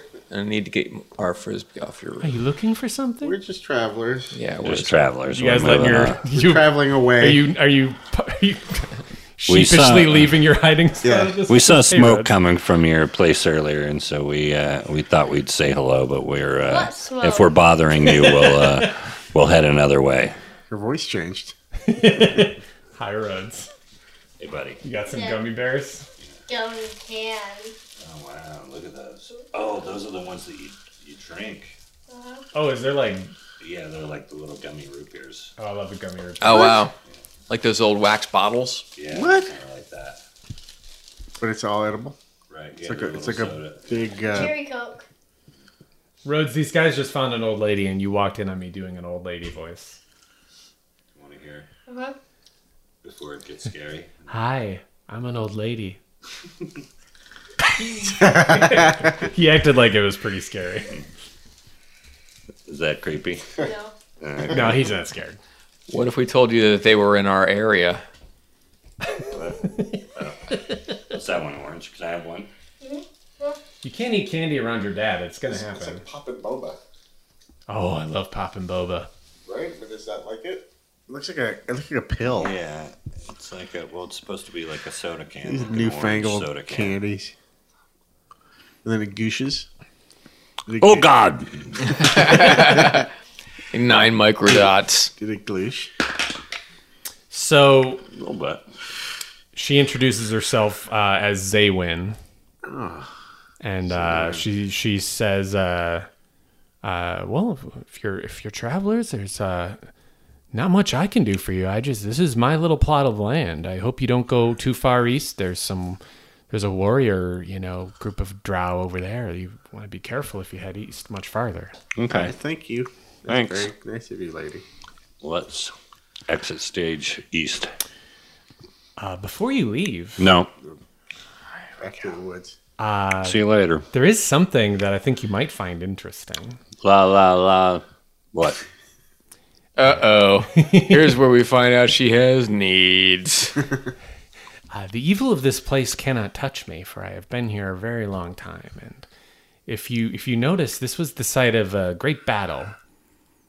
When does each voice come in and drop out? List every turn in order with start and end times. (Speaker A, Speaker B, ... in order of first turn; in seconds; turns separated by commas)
Speaker A: 0.3-2.3, Speaker B: 2.2-3.4, Speaker C: 3.2-4.3, Speaker A: 4.3-5.0, Speaker D: 4.6-6.2, Speaker B: 5.3-12.3, Speaker C: 6.2-7.5, Speaker D: 9.5-10.3, Speaker C: 11.0-11.4, Speaker D: 11.5-20.3, Speaker E: 16.7-17.5, Speaker B: 18.4-18.8, Speaker C: 20.7-21.6, Speaker B: 21.8-23.7, Speaker D: 24.4-24.8, Speaker B: 24.8-26.1, Speaker E: 25.1-25.4, Speaker E: 26.5-27.7, Speaker D: 28.0-31.8, Speaker E: 32.1-32.5, Speaker B: 32.5-33.3, Speaker D: 33.6-35.5, Speaker B: 35.6-36.8, Speaker A: 36.4-36.9, Speaker C: 36.5-36.8, Speaker A: 37.5-38.9, Speaker D: 39.0-40.2, Speaker C: 39.1-39.5, Speaker C: 41.4-42.2, Speaker D: 42.5-43.9, Speaker C: 42.8-44.6, Speaker E: 44.3-45.0, Speaker B: 46.2-50.0, Speaker D: 51.1-51.7, Speaker E: 51.9-52.1, Speaker D: 53.0-54.3, Speaker B: 54.3-56.0, Speaker B: 57.7-60.9, Speaker C: 58.1-59.1, Speaker D: 62.6-63.5, Speaker E: 63.6-63.9, Speaker D: 64.2-64.9, Speaker B: 64.5-65.4, Speaker A: 65.9-68.0, Speaker D: 69.3-72.5, Speaker E: 72.8-73.6, Speaker B: 73.8-76.0, Speaker C: 75.5-76.8, Speaker B: 77.7-79.1, Speaker C: 79.5-82.5, Speaker D: 82.3-87.0, Speaker C: 85.4-87.3, Speaker C: 88.8-89.7, Speaker C: 90.7-91.1, Speaker D: 90.8-92.1, Speaker A: 91.8-93.1, Speaker A: 93.7-95.1, Speaker C: 94.5-95.9, Speaker B: 97.3-98.0, Speaker D: 98.1-98.6, Speaker B: 99.5-102.2, Speaker C: 102.6-103.1, Speaker B: 103.6-106.1, Speaker C: 103.8-104.5, Speaker B: 106.8-109.8, Speaker B: 110.5-121.7, Speaker D: 122.0-122.3, Speaker C: 122.1-124.6, Speaker D: 123.3-123.7, Speaker D: 125.2-125.7, Speaker D: 126.3-127.7, Speaker B: 129.0-130.3, Speaker D: 130.2-130.5, Speaker C: 131.8-132.6, Speaker B: 132.8-133.4, Speaker D: 133.2-133.8, Speaker B: 133.9-136.6, Speaker D: 136.8-138.6, Speaker A: 139.8-143.7, Speaker B: 140.5-141.1, Speaker B: 144.7-149.1, Speaker B: 149.7-152.8